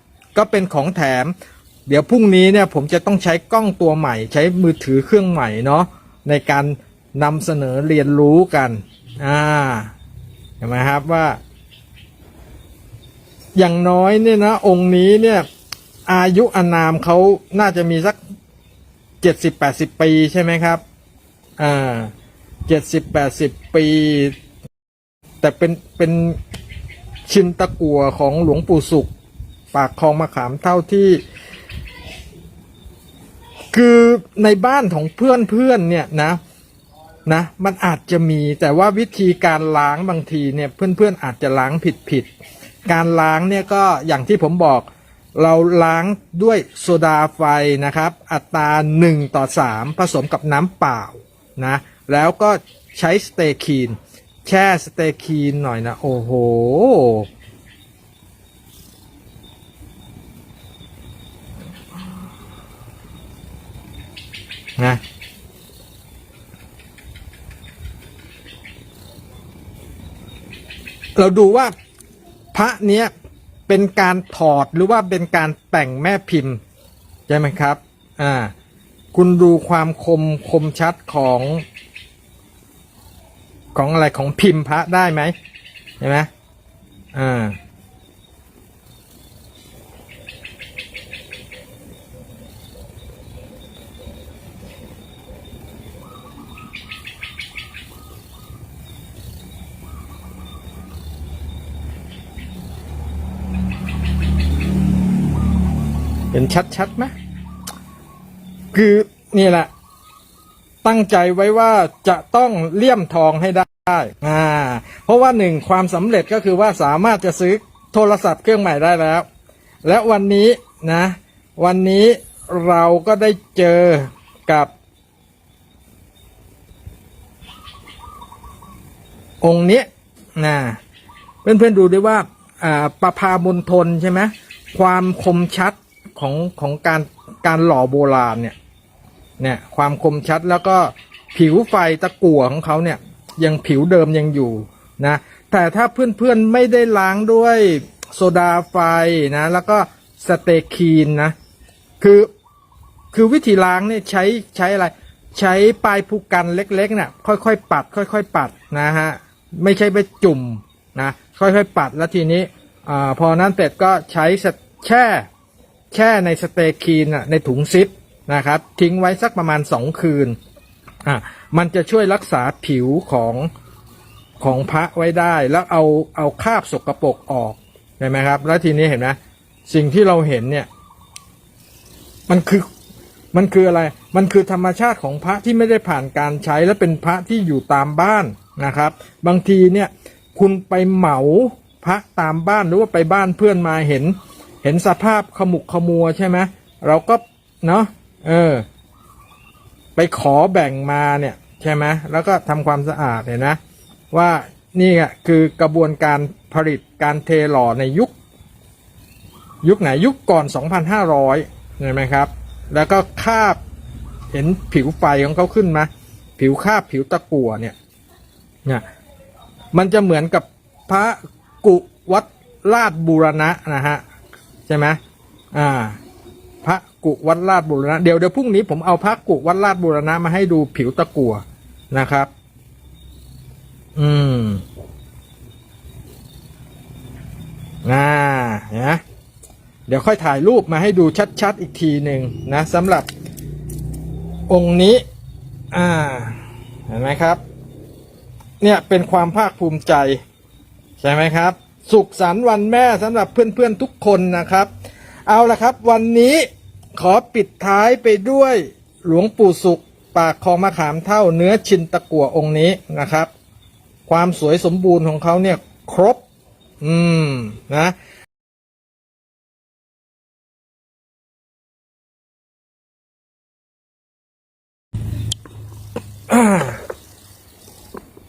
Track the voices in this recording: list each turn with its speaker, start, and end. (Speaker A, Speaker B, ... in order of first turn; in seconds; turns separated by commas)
Speaker A: 0.3-1.3, Speaker A: 1.9-9.9, Speaker A: 10.6-11.4, Speaker A: 13.6-15.5, Speaker A: 16.1-18.2, Speaker A: 19.2-20.8, Speaker A: 21.6-22.1, Speaker A: 22.7-24.4, Speaker A: 25.4-26.4, Speaker A: 27.3-29.1, Speaker A: 29.7-31.2, Speaker A: 33.7-36.4, Speaker A: 37.3-42.3, Speaker A: 42.9-57.3, Speaker A: 71.2-71.7, Speaker A: 72.5-73.1, Speaker A: 73.7-76.6, Speaker A: 77.3-78.5, Speaker A: 79.1-81.6, Speaker A: 83.8-85.3, Speaker A: 86.0-86.3, Speaker A: 87.1-87.6, Speaker A: 106.3-107.1, Speaker A: 108.7-109.7, Speaker A: 110.8-119.3, Speaker A: 119.8-124.7, Speaker A: 129.4-130.8, Speaker A: 131.4-138.6, Speaker A: 139.4-151.3, Speaker A: 152.0-152.3, Speaker A: 153.1-165.3, Speaker A: 165.9-170.4, Speaker A: 171.1-173.5, Speaker A: 174.4-180.7, Speaker A: 182.3-182.7, Speaker A: 183.3-198.7, Speaker A: 200.0-203.6, Speaker A: 204.1-208.1, Speaker A: 209.6-213.6, Speaker A: 214.3-217.8, Speaker A: 219.7-224.0, Speaker A: 224.7-225.0, Speaker A: 225.5-226.0, Speaker A: 226.6-232.3, Speaker A: 234.0-234.6, Speaker A: 237.8-239.0, Speaker A: 239.9-243.1, Speaker A: 244.5-245.0, Speaker A: 245.7-247.4, Speaker A: 248.6-250.2, Speaker A: 251.0-254.7, Speaker A: 255.3-263.3, Speaker A: 264.1-266.2, Speaker A: 266.8-267.9, Speaker A: 276.3-276.8